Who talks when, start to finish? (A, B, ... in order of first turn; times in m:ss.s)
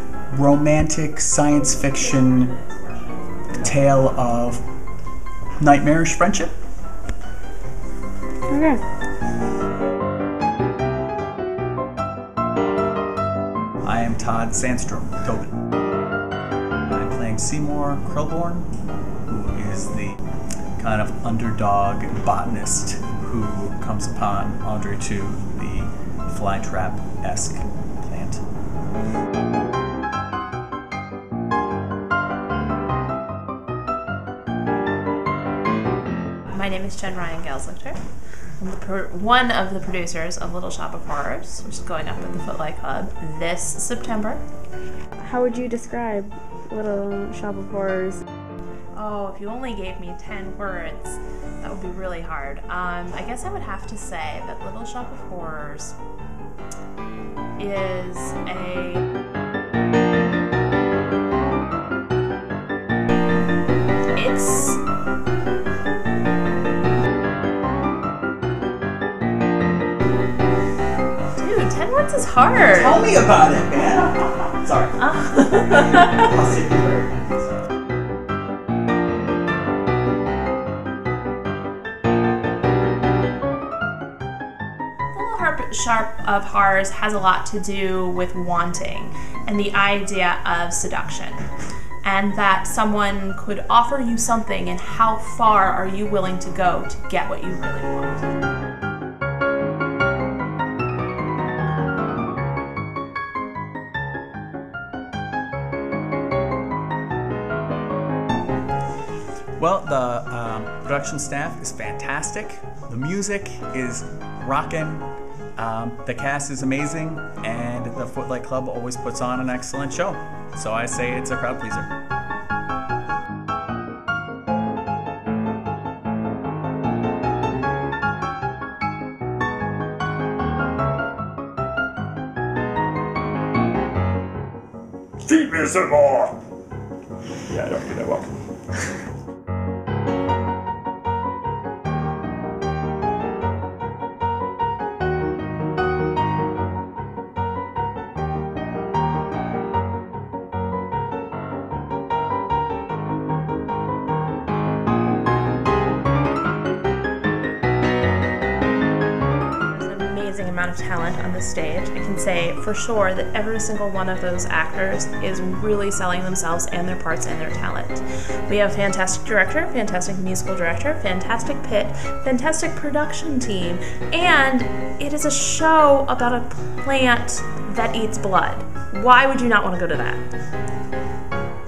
0:00.3-0:02.5 A
0:01.8-0:03.6 B
0:03.6-0:04.6 A
0:05.6-0:06.6 A
0:08.5-0:08.8 C
0:13.8-0:15.5 A
0:16.9-0:18.7 A
0:19.3-0:20.2 A
0:20.8-0:28.4 A
0:36.5-0:38.0 B
0:38.6-0:44.4 B
0:45.2-0:48.2 C
0:49.0-0:56.0 B
0:57.6-0:59.1 B
1:04.1-1:04.8 B
1:11.4-1:13.0 B
1:12.7-1:15.0 A
1:15.0-1:16.3 B
1:15.9-1:17.6 A
1:25.1-1:31.4 B
1:32.0-1:38.3 B
1:49.6-2:01.9 A
2:15.2-2:16.4 D
2:17.5-2:18.4 D
2:39.7-3:00.2 B